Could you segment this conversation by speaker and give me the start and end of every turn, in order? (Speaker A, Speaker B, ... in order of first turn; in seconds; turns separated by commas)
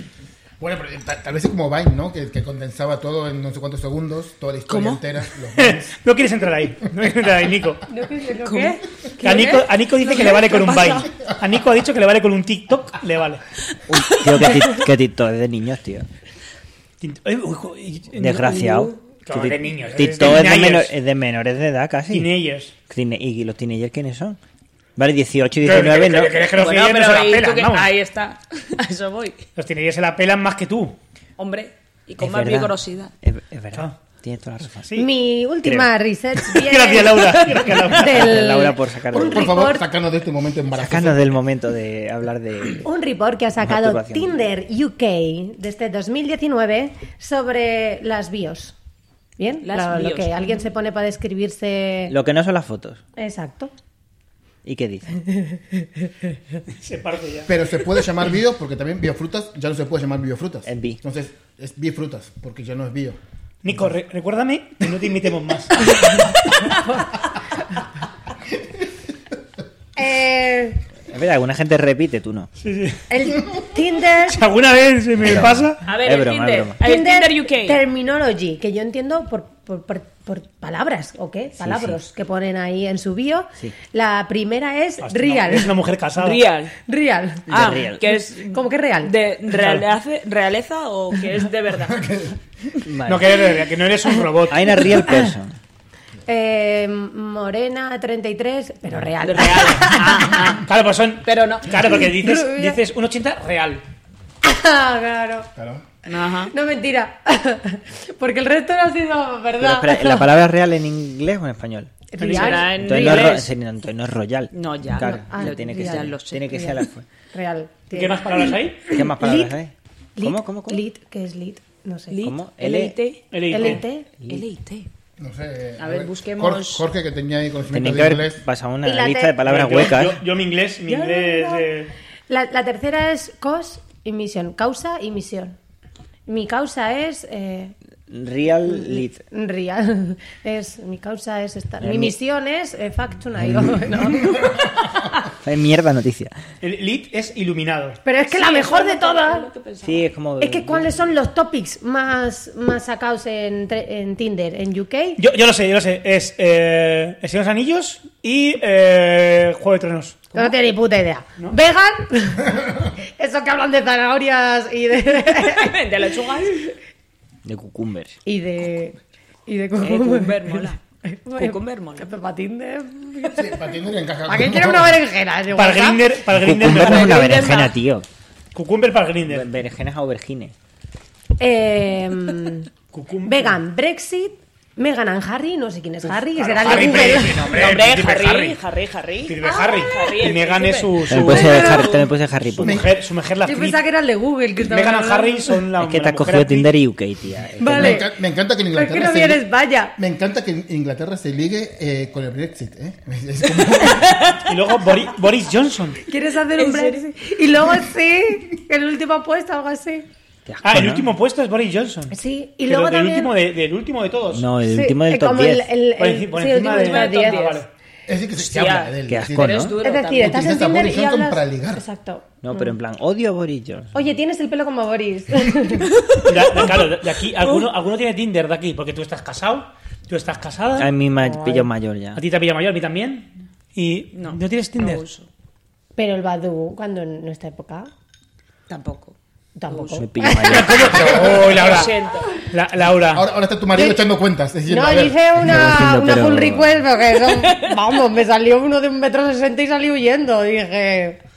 Speaker A: 0.6-5.9, Speaker B: 4.7-5.0, Speaker C: 5.6-7.8, Speaker D: 7.9-11.0, Speaker B: 8.4-11.1, Speaker C: 9.2-13.4, Speaker E: 13.9-16.1, Speaker C: 17.0-20.9, Speaker E: 18.2-22.3, Speaker B: 18.5-18.9, Speaker C: 22.1-22.7, Speaker E: 22.9-24.4, Speaker E: 25.0-26.4, Speaker C: 25.6-27.9, Speaker B: 26.5-29.5, Speaker C: 29.6-31.0, Speaker B: 31.4-33.1, Speaker E: 32.2-35.0, Speaker C: 34.8-35.1, Speaker D: 35.0-39.9, Speaker E: 35.6-35.9, Speaker C: 36.5-38.4, Speaker E: 38.0-39.5, Speaker A: 39.1-41.4, Speaker E: 40.7-42.9, Speaker D: 42.8-48.7, Speaker E: 43.6-44.4, Speaker D: 49.4-52.1, Speaker B: 49.6-50.6, Speaker E: 52.1-53.0, Speaker D: 53.2-53.7, Speaker E: 54.6-55.1, Speaker D: 55.2-56.1, Speaker C: 56.7-57.6, Speaker A: 57.5-63.2, Speaker E: 60.7-61.0, Speaker C: 63.6-66.3, Speaker D: 70.0-70.8, Speaker E: 71.1-72.5, Speaker C: 72.6-73.3, Speaker D: 73.1-74.4, Speaker C: 74.3-75.8, Speaker E: 75.2-76.8, Speaker B: 75.8-77.8, Speaker D: 76.8-85.8, Speaker E: 81.6-82.0, Speaker C: 85.0-86.4, Speaker B: 86.2-86.7, Speaker D: 86.8-87.5, Speaker E: 87.5-88.1, Speaker B: 87.5-92.3, Speaker D: 88.4-89.2, Speaker C: 89.5-89.8, Speaker A: 91.9-92.4, Speaker E: 92.8-93.4, Speaker C: 93.1-94.9, Speaker E: 94.5-95.6, Speaker D: 96.3-100.3, Speaker B: 99.2-100.7, Speaker C: 99.7-103.8, Speaker B: 101.2-102.0, Speaker D: 102.0-102.8, Speaker D: 104.4-105.5, Speaker A: 105.5-105.9, Speaker B: 106.0-106.5, Speaker D: 106.5-110.3, Speaker E: 109.6-112.0, Speaker D: 112.1-113.1, Speaker C: 112.2-112.7, Speaker B: 112.3-113.5, Speaker E: 112.7-117.0, Speaker B: 114.5-116.6, Speaker D: 115.1-116.8, Speaker D: 117.3-119.6, Speaker C: 117.9-118.9, Speaker E: 118.9-120.8, Speaker D: 120.2-122.2, Speaker B: 122.1-124.9, Speaker E: 122.2-123.0, Speaker C: 123.3-123.8, Speaker D: 123.5-124.1, Speaker A: 125.2-128.4, Speaker B: 125.8-126.8, Speaker E: 127.7-130.2, Speaker D: 128.8-129.4, Speaker C: 129.4-131.9, Speaker D: 130.9-131.7, Speaker D: 132.3-135.6, Speaker D: 136.3-137.7, Speaker E: 138.1-139.2, Speaker D: 138.7-144.6, Speaker E: 141.8-142.2, Speaker E: 143.4-143.9, Speaker E: 145.3-146.3, Speaker C: 146.6-148.0, Speaker D: 148.1-149.5, Speaker B: 148.3-150.1, Speaker E: 149.8-150.9, Speaker D: 150.4-155.2, Speaker C: 155.2-160.3, Speaker D: 160.3-165.8, Speaker B: 165.3-166.7, Speaker E: 167.4-168.2, Speaker D: 168.2-173.7, Speaker B: 169.8-170.8, Speaker B: 171.3-172.1, Speaker A: 173.3-175.0, Speaker D: 174.2-176.1, Speaker C: 175.6-177.4, Speaker E: 176.3-178.1, Speaker B: 176.8-177.8, Speaker C: 178.6-179.5, Speaker E: 179.2-180.5, Speaker D: 181.4-182.7, Speaker C: 182.9-183.6, Speaker D: 183.2-187.5, Speaker C: 186.2-188.6, Speaker B: 186.6-192.1, Speaker C: 189.3-191.9, Speaker D: 189.5-189.8, Speaker E: 191.1-192.8, Speaker D: 191.3-191.9, Speaker C: 192.5-193.8, Speaker A: 192.6-192.9, Speaker D: 193.4-195.6, Speaker C: 194.6-196.7, Speaker E: 195.8-198.0, Speaker D: 197.6-198.1, Speaker A: 197.7-199.4, Speaker D: 198.7-199.9, Speaker A: 200.0-204.2, Speaker B: 203.7-204.4, Speaker C: 204.4-206.0, Speaker D: 206.1-210.1, Speaker B: 206.6-207.0, Speaker E: 210.5-211.1, Speaker C: 210.6-214.5, Speaker D: 212.1-213.3, Speaker E: 214.3-215.7, Speaker D: 214.6-217.6, Speaker C: 216.0-217.7, Speaker B: 216.5-217.7, Speaker A: 218.1-221.8, Speaker B: 218.4-220.4, Speaker E: 219.1-219.8, Speaker D: 219.8-222.8, Speaker E: 222.4-223.9, Speaker D: 223.9-225.9, Speaker B: 226.0-226.7, Speaker C: 226.2-230.9, Speaker E: 230.8-232.2, Speaker D: 231.2-231.7, Speaker C: 232.1-235.0, Speaker B: 234.1-235.3, Speaker D: 236.0-237.9, Speaker B: 238.7-239.2, Speaker D: 239.6-241.4, Speaker B: 239.7-240.0, Speaker E: 239.9-241.3, Speaker C: 240.4-243.3, Speaker B: 241.3-242.5, Speaker A: 243.1-245.2, Speaker D: 243.8-244.0, Speaker D: 244.7-251.2, Speaker E: 245.4-246.8, Speaker B: 247.3-247.8